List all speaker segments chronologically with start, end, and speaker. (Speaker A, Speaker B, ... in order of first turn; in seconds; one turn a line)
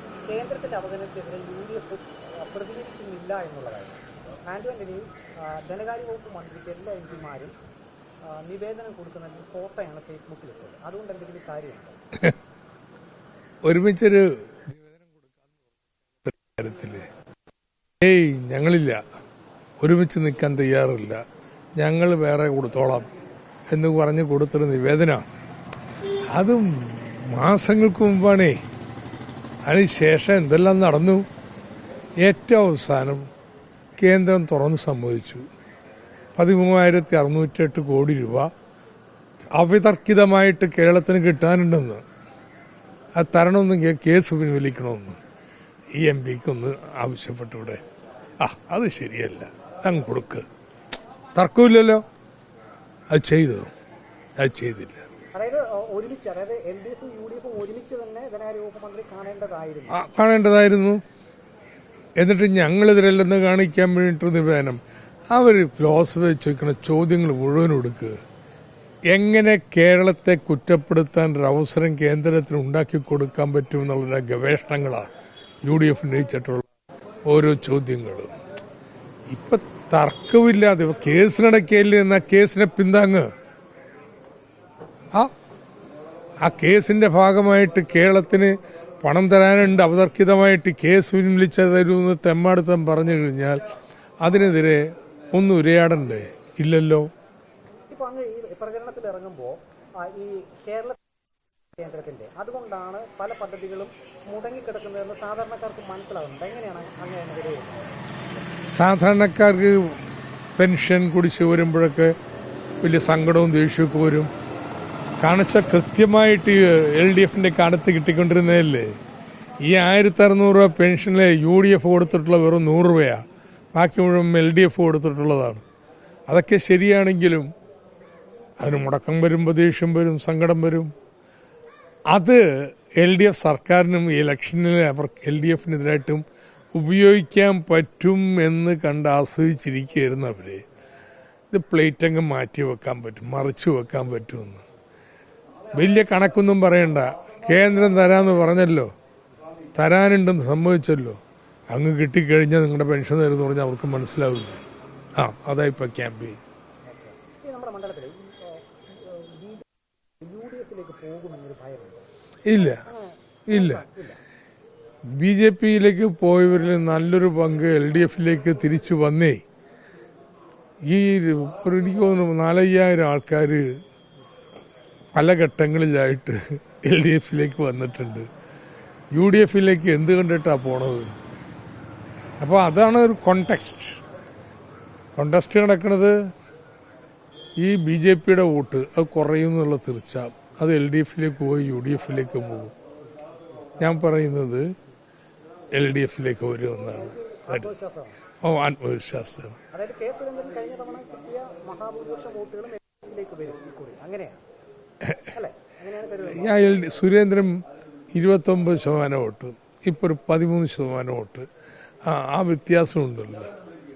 Speaker A: 0.2-7.5
Speaker A: 8.3-12.0
Speaker B: 13.6-15.6
Speaker B: 16.2-17.1
Speaker B: 18.0-19.0
Speaker B: 19.8-21.2
Speaker B: 21.8-23.1
Speaker B: 23.7-25.2
Speaker B: 26.3-28.6
Speaker B: 29.6-31.2
Speaker B: 32.2-33.3
Speaker B: 34.0-35.4
Speaker B: 36.4-38.5
Speaker B: 39.5-42.0
Speaker B: 43.1-45.2
Speaker B: 46.0-47.8
Speaker B: 48.4-50.4
Speaker B: 51.4-52.0
Speaker B: 53.1-53.7
Speaker B: 54.4-55.0
Speaker A: 55.3-60.0
Speaker B: 59.9-61.0
Speaker B: 62.2-64.8
Speaker B: 65.3-68.2
Speaker B: 69.1-75.0
Speaker B: 75.6-76.7
Speaker B: 77.3-78.3
Speaker B: 79.3-83.3
Speaker B: 86.4-93.6
Speaker B: 94.2-97.1
Speaker A: 97.9-101.0
Speaker A: 101.8-108.5
Speaker B: 108.7-110.0
Speaker B: 110.6-112.1
Speaker B: 112.8-114.3
Speaker B: 115.2-118.9
Speaker B: 119.6-123.2
Speaker B: 123.7-125.6
Speaker B: 126.3-127.5
Speaker B: 128.6-130.9
Speaker B: 132.1-140.6
Speaker B: 141.5-144.6
Speaker B: 145.7-148.9
Speaker B: 149.8-151.2
Speaker B: 151.7-154.6
Speaker B: 155.2-156.4
Speaker A: 156.9-162.1
Speaker B: 162.4-162.8
Speaker A: 162.6-164.2
Speaker B: 163.5-163.8
Speaker B: 165.1-169.4
Speaker B: 170.9-173.7
Speaker B: 175.1-178.3
Speaker B: 179.1-181.1
Speaker B: 182.4-184.0
Speaker B: 185.2-186.2
Speaker B: 187.6-192.7
Speaker B: 193.8-194.7
Speaker B: 195.7-197.7
Speaker A: 197.0-198.2
Speaker B: 198.4-199.6
Speaker A: 199.7-204.4
Speaker A: 205.2-206.8
Speaker B: 206.3-207.6
Speaker B: 208.1-211.5
Speaker B: 212.1-213.5